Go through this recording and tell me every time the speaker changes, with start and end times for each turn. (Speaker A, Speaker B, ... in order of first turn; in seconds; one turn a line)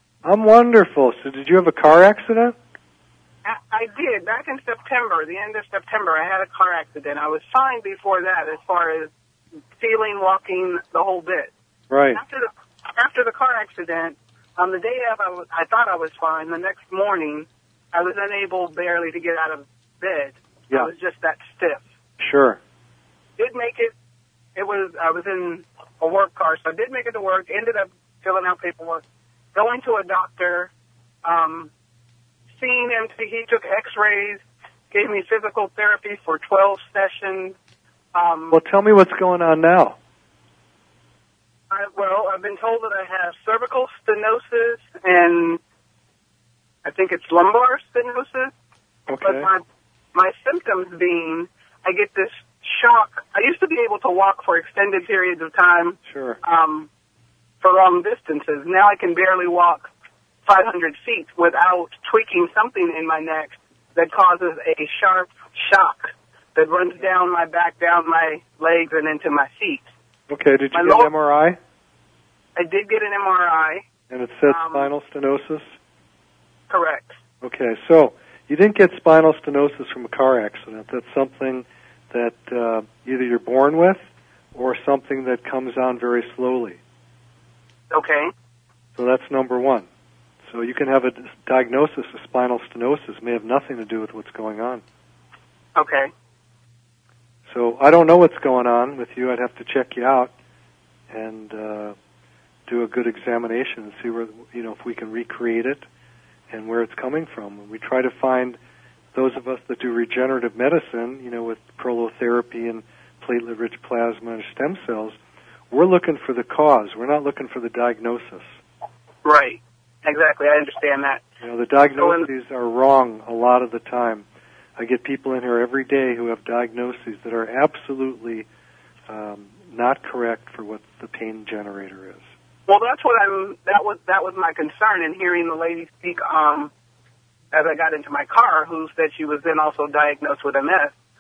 Speaker A: 0.2-2.5
Speaker B: 3.4-9.1
Speaker B: 9.8-11.5
Speaker A: 11.9-12.2
Speaker B: 12.1-21.8
Speaker A: 22.2-22.6
Speaker B: 23.4-23.9
Speaker B: 24.5-29.0
Speaker B: 29.5-30.7
Speaker B: 31.2-31.7
Speaker B: 32.6-37.5
Speaker B: 38.1-38.5
Speaker A: 38.5-40.0
Speaker B: 41.7-45.6
Speaker B: 46.8-48.5
Speaker A: 49.1-49.5
Speaker B: 49.2-49.6
Speaker B: 50.1-56.9
Speaker A: 56.0-56.4
Speaker B: 57.6-59.9
Speaker B: 60.5-69.9
Speaker A: 70.3-71.6
Speaker B: 70.7-71.1
Speaker B: 72.5-73.8
Speaker A: 74.1-75.7
Speaker B: 74.5-74.9
Speaker B: 76.7-77.2
Speaker A: 77.4-84.0
Speaker A: 84.5-86.8
Speaker B: 87.9-88.3
Speaker A: 89.0-89.8
Speaker A: 90.5-94.8
Speaker B: 95.8-96.1
Speaker A: 97.5-100.3
Speaker A: 101.1-101.9
Speaker A: 102.7-105.8
Speaker A: 106.5-108.6
Speaker A: 109.1-115.2
Speaker A: 115.7-118.6
Speaker B: 119.2-121.2
Speaker A: 121.4-124.2
Speaker B: 122.0-122.2
Speaker A: 124.8-128.5
Speaker A: 129.1-132.2
Speaker B: 132.7-136.7
Speaker B: 137.5-140.9